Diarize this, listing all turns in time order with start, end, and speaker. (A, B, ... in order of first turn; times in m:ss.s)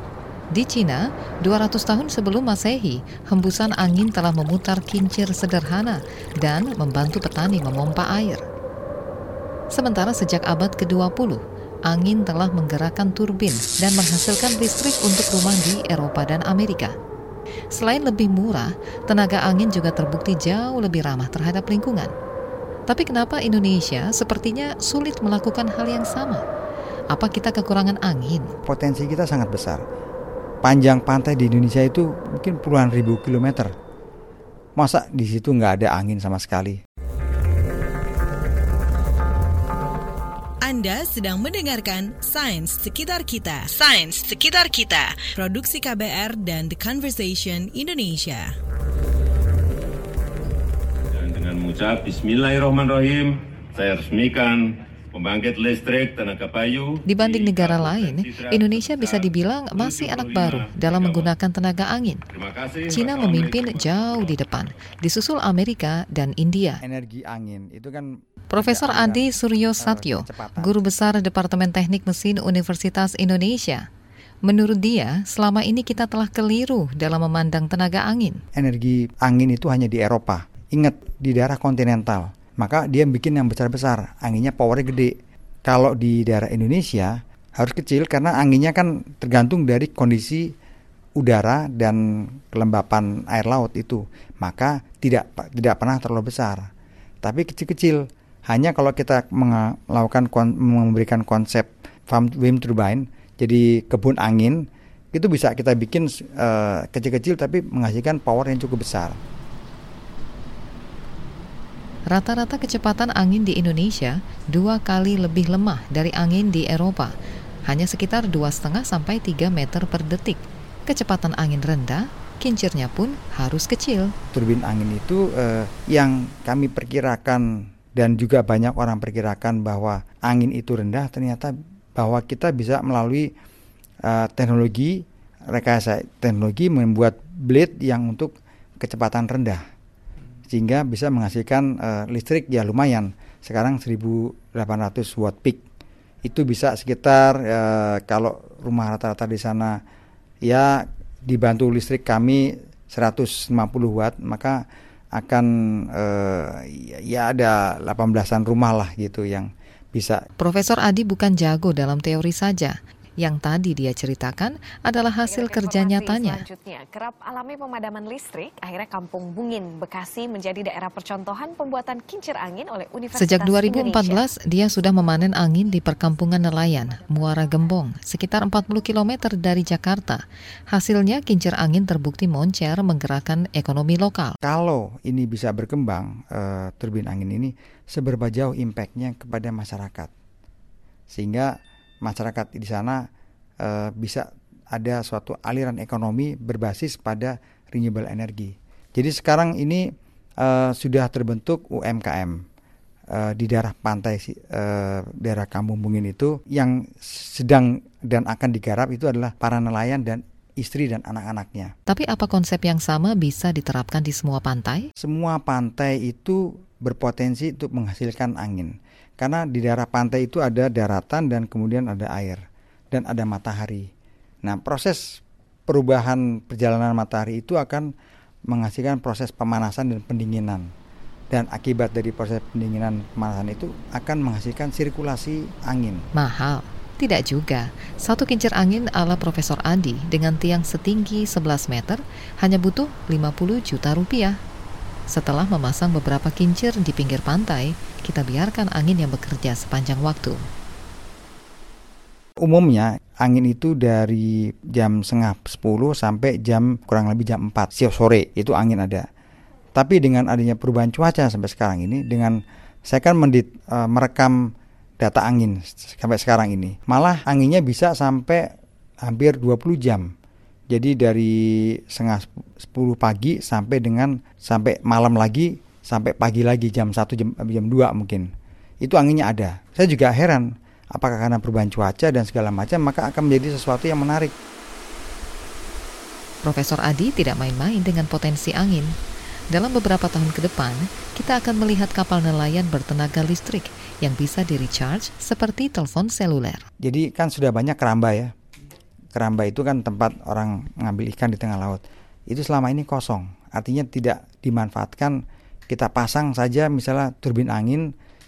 0:00.5-0:08.4 A
0:09.7-0:16.9 A
0:17.7-0:22.1 A
0:22.9-0:26.4 A
0:27.1-0:28.5 A
0:28.6-0:29.8 B
0:30.6-0:33.7 B
0:34.8-0:36.8 B
0:40.6-0:48.5 C
0:51.1-1:01.3 D
0:57.0-1:02.2 A
1:02.3-1:04.4 D
1:02.9-1:06.8 A
1:06.8-1:10.8 B
1:08.5-1:13.8 A
1:14.4-1:18.4 A
1:18.6-1:25.1 B
1:25.6-1:30.5 B
1:31.2-1:36.7 B
1:37.2-1:49.2 B
1:52.1-1:57.1 A
1:57.7-2:04.1 A
2:04.3-2:13.3 B
2:14.0-2:19.6 B
2:20.5-2:25.6 B
2:26.2-2:29.8 B
2:30.4-2:34.6 B
2:35.2-2:40.2 B
2:40.4-2:46.4 A
2:45.2-2:54.3 E
2:53.2-3:04.4 A
2:56.6-2:57.5 E
3:04.4-3:10.1 B
3:11.1-3:11.5 B
3:12.0-3:13.0 B
3:13.6-3:19.8 B
3:20.4-3:22.4 B
3:23.1-3:31.7 B
3:31.9-3:34.9 A
3:35.0-3:42.4 B
3:42.9-3:43.9 B
3:44.4-3:47.9 B
3:48.5-3:50.7 B
3:51.3-3:56.0 B
3:56.2-4:04.4 A
4:05.1-4:10.4 A
4:12.4-4:19.0 B
4:19.7-4:24.4 B
4:25.0-4:28.5 B
4:29.0-4:30.1 B
4:30.7-4:38.3 B
4:38.8-4:44.3 B
4:46.4-4:48.9 A
4:49.5-4:56.6 A
4:56.8-4:58.3 B
4:59.1-5:05.2 B
5:05.7-5:07.9 B